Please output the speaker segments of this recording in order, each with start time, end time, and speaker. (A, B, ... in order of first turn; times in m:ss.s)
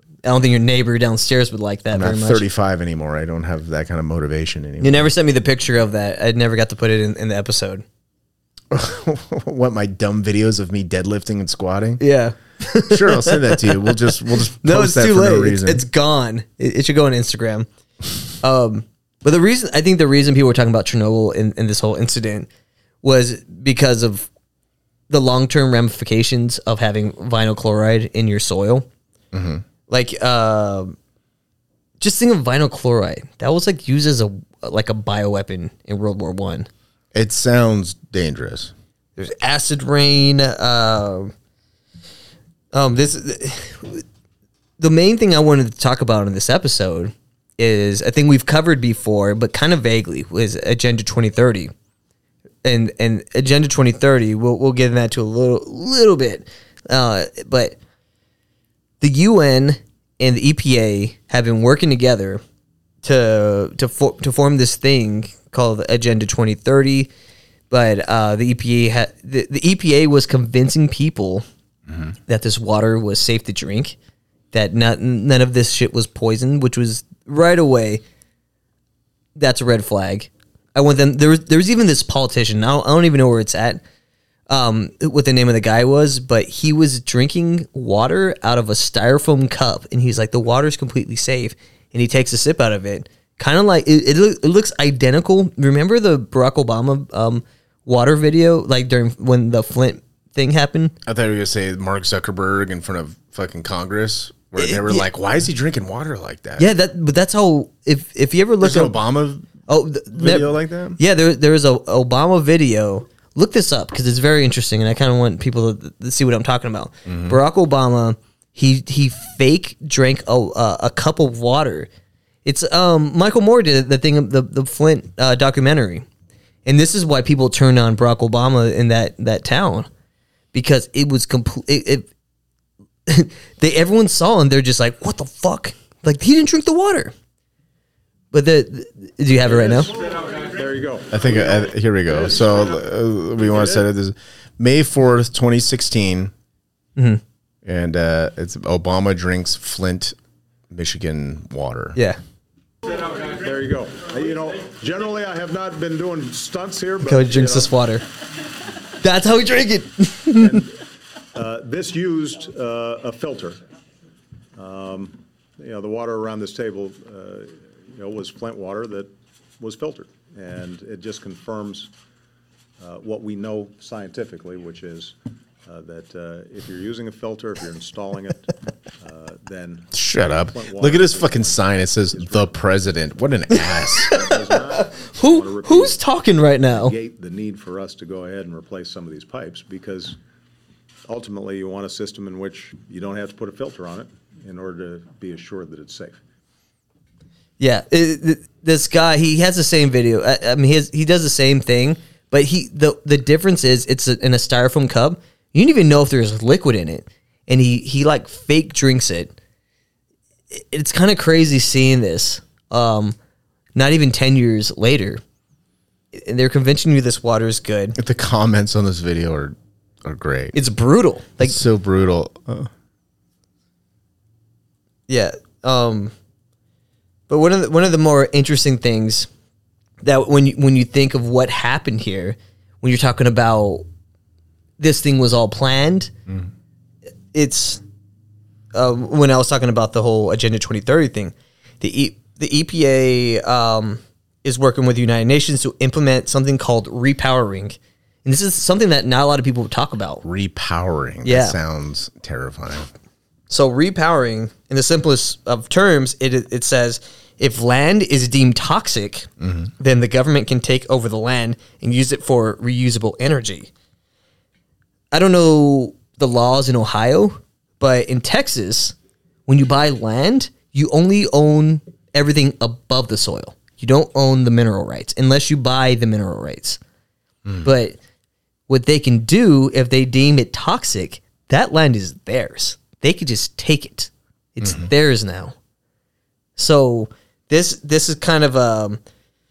0:00.2-0:02.4 A
0:01.9-0:05.1 B
0:04.8-0:07.8 A
0:08.7-0:12.0 B
0:12.0-0:17.7 A
0:12.9-0:15.8 B
0:18.4-0:22.5 A
0:23.0-0:24.3 A
0:25.1-0:28.8 A
0:29.3-0:29.6 B
0:29.9-0:31.0 A
0:32.0-0:36.7 A
0:37.1-0:38.7 B
0:39.2-0:41.3 A
0:42.7-0:44.0 A
0:44.8-0:51.7 A
0:52.6-0:57.8 A
0:59.0-1:02.4 A
1:03.0-1:07.1 A
1:07.7-1:11.4 A
1:12.3-1:14.0 A
1:14.5-1:18.0 A
1:19.4-1:23.8 A
1:24.5-1:40.9 A
1:41.0-1:46.7 B
1:44.6-1:45.1 A
1:46.6-1:49.0 A
1:48.6-1:49.5 B
1:49.7-2:01.9 A
1:50.1-1:51.0 B
1:57.0-1:57.4 B
2:02.4-2:06.0 A
2:06.6-2:09.9 A
2:10.5-2:12.1 A
2:13.1-2:17.1 A
2:18.3-2:19.9 A
2:19.5-2:22.6 C
2:21.1-2:26.3 B
2:23.5-2:23.8 C
2:27.0-2:27.2 A
2:27.6-2:30.2 B
2:30.7-2:32.0 B
2:33.2-2:37.7 C
2:37.0-2:38.0 A
2:39.0-2:40.6 A
2:40.3-2:40.8 C
2:41.3-2:43.6 C
2:44.5-2:51.9 C
2:52.8-3:02.5 C
2:59.9-3:04.2 B
3:03.9-3:07.0 A
3:04.0-3:06.0 C
3:06.7-3:10.2 C
3:11.1-3:16.2 C
3:17.6-3:29.3 A
3:30.5-3:33.1 A
3:33.7-3:35.2 A
3:36.1-3:38.0 A
3:38.0-3:40.6 B
3:40.5-3:41.6 A
3:41.4-3:42.7 B
3:45.1-3:46.1 A
3:47.3-3:49.3 A
3:50.0-3:53.8 A
3:54.8-3:56.1 A
3:57.3-3:57.8 A
3:58.7-4:10.2 A
4:10.2-4:12.9 B
4:11.2-4:11.6 A
4:13.5-4:23.7 A
4:19.4-4:19.7 B
4:25.1-4:28.9 A
4:29.5-4:36.8 A
4:37.6-4:38.0 A
4:38.7-4:45.5 A
4:44.6-4:44.9 B
4:46.6-4:49.0 A